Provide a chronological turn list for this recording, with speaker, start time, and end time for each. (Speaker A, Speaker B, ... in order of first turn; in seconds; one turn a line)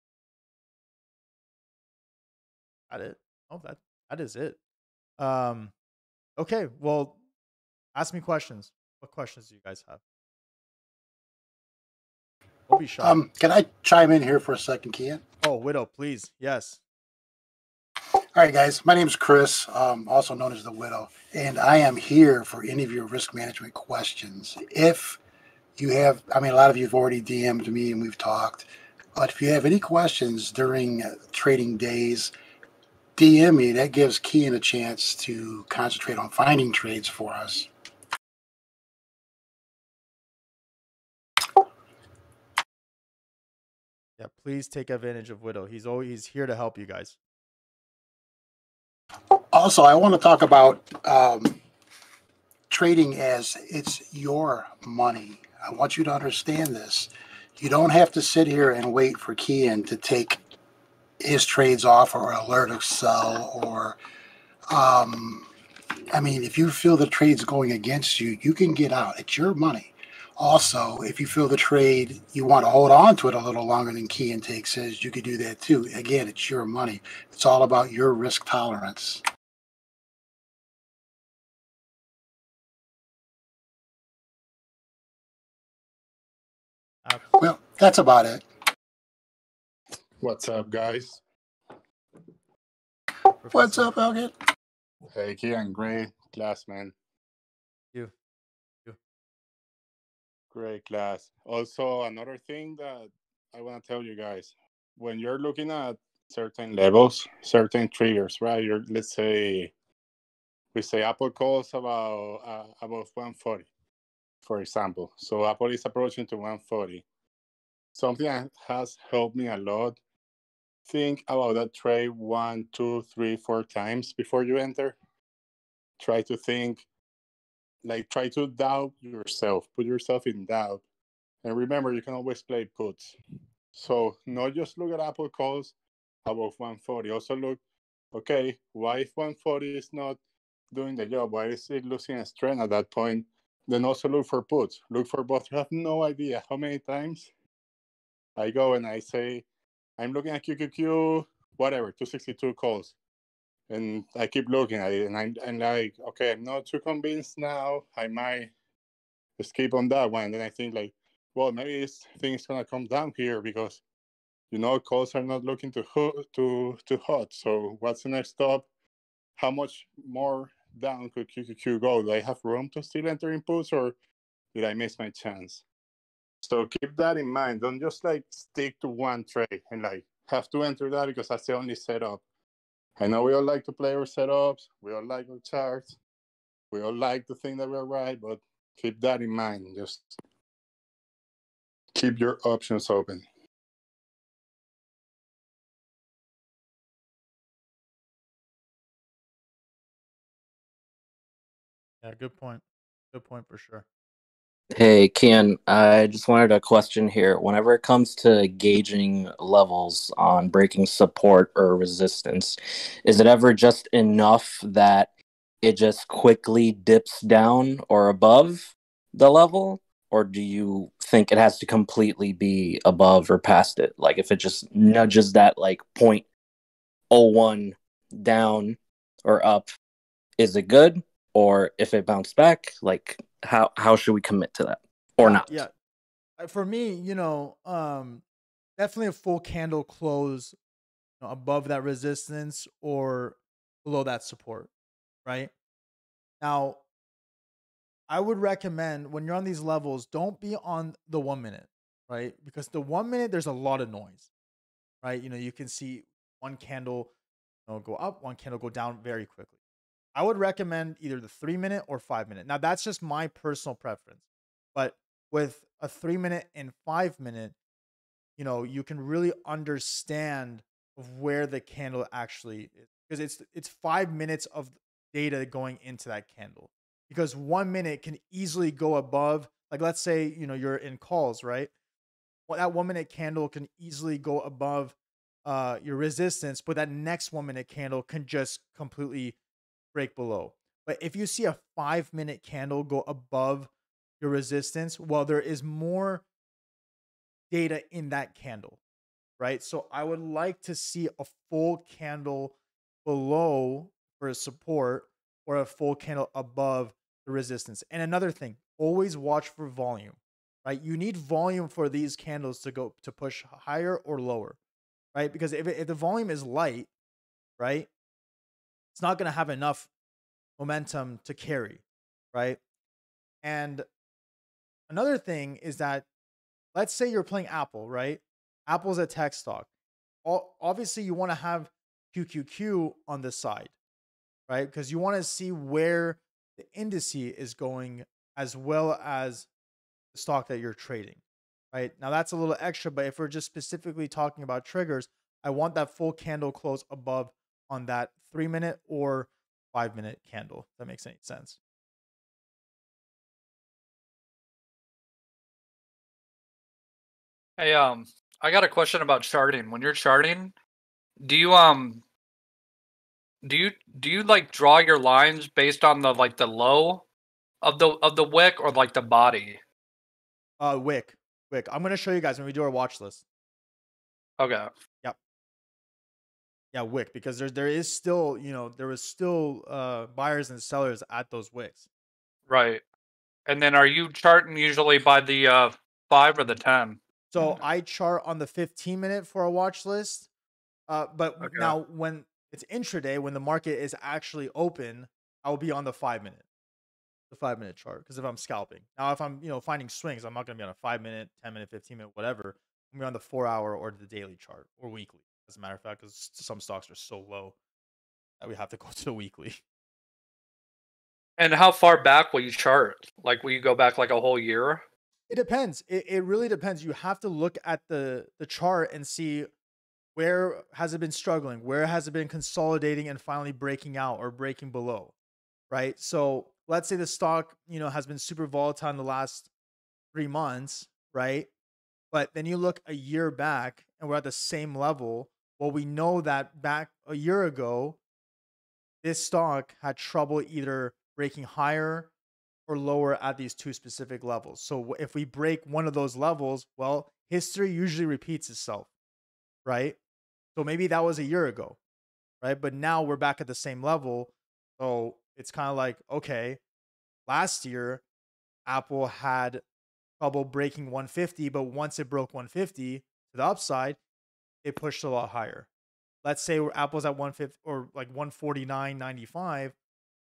Speaker A: 2.9-4.6
Speaker A: 5.2-5.7
Speaker A: 6.4-7.2
Speaker A: 8.0-10.0
Speaker A: 12.7-13.2
Speaker B: 13.0-15.2
Speaker A: 15.4-16.8
Speaker B: 18.4-25.2
Speaker B: 25.8-32.3
Speaker B: 33.2-37.7
Speaker A: 44.2-47.2
Speaker B: 49.4-51.6
Speaker B: 52.7-60.4
Speaker B: 61.2-64.0
Speaker B: 64.7-65.5
Speaker B: 66.1-79.2
Speaker B: 87.3-88.5
Speaker C: 90.2-91.2
Speaker A: 93.4-93.9
Speaker B: 93.5-94.3
Speaker C: 95.1-96.9
Speaker C: 100.5-109.7
Speaker C: 110.7-113.7
Speaker C: 114.4-117.0
Speaker C: 118.0-120.0
Speaker C: 120.9-125.0
Speaker C: 126.0-126.8
Speaker C: 127.8-130.8
Speaker C: 131.4-133.2
Speaker C: 133.8-135.7
Speaker C: 136.2-137.6
Speaker C: 138.1-140.2
Speaker C: 140.7-147.3
Speaker C: 148.4-149.4
Speaker C: 150.0-152.9
Speaker C: 153.7-158.5
Speaker C: 159.4-163.8
Speaker C: 164.5-168.7
Speaker C: 169.4-173.9
Speaker C: 174.5-175.6
Speaker C: 176.4-182.2
Speaker C: 183.0-186.0
Speaker C: 186.7-190.2
Speaker C: 191.9-193.2
Speaker A: 202.0-203.8
Speaker D: 204.7-215.1
Speaker D: 215.6-226.3
Speaker D: 227.1-229.7
Speaker D: 230.4-235.6
Speaker A: 235.2-235.7
Speaker A: 236.4-238.2
Speaker A: 238.8-240.6
Speaker A: 241.2-244.7
Speaker A: 245.2-245.5
Speaker A: 246.4-246.8
Speaker A: 248.1-254.3
Speaker A: 255.0-257.1
Speaker A: 257.7-259.6
Speaker A: 260.1-264.2
Speaker A: 264.8-267.6
Speaker A: 268.4-281.7
Speaker A: 282.5-289.4
Speaker A: 289.9-296.2
Speaker A: 297.5-298.8
Speaker A: 299.4-314.6
Speaker A: 315.1-316.9
Speaker A: 317.6-317.9
Speaker A: 318.9-319.9
Speaker A: 320.6-321.8
Speaker A: 322.3-322.6
Speaker A: 323.4-323.9
Speaker A: 324.9-326.1
Speaker A: 326.8-329.7
Speaker A: 330.2-333.7
Speaker A: 334.5-339.5
Speaker A: 340.1-341.2
Speaker A: 341.7-351.6
Speaker E: 357.6-360.5
Speaker E: 361.2-362.0
Speaker E: 363.4-367.1
Speaker E: 367.6-369.6
Speaker A: 370.6-373.2
Speaker E: 374.4-374.7
Speaker A: 376.7-381.9
Speaker E: 382.5-382.8
Speaker E: 383.5-387.6
Speaker A: 387.3-390.3
Speaker A: 390.9-396.4
Speaker E: 391.4-391.8
Speaker A: 397.3-407.6
Speaker A: 408.4-409.6
Speaker E: 411.4-414.9
Speaker A: 415.3-419.5
Speaker A: 420.1-425.1
Speaker A: 425.7-429.5
Speaker A: 430.1-431.5
Speaker A: 432.1-438.0
Speaker A: 439.0-442.1
Speaker A: 442.7-448.9
Speaker A: 449.6-450.0
Speaker A: 450.6-451.8
Speaker A: 452.4-456.6
Speaker A: 457.3-458.0
Speaker A: 458.7-459.6
Speaker A: 460.2-464.0
Speaker A: 464.6-465.7
Speaker A: 466.2-469.8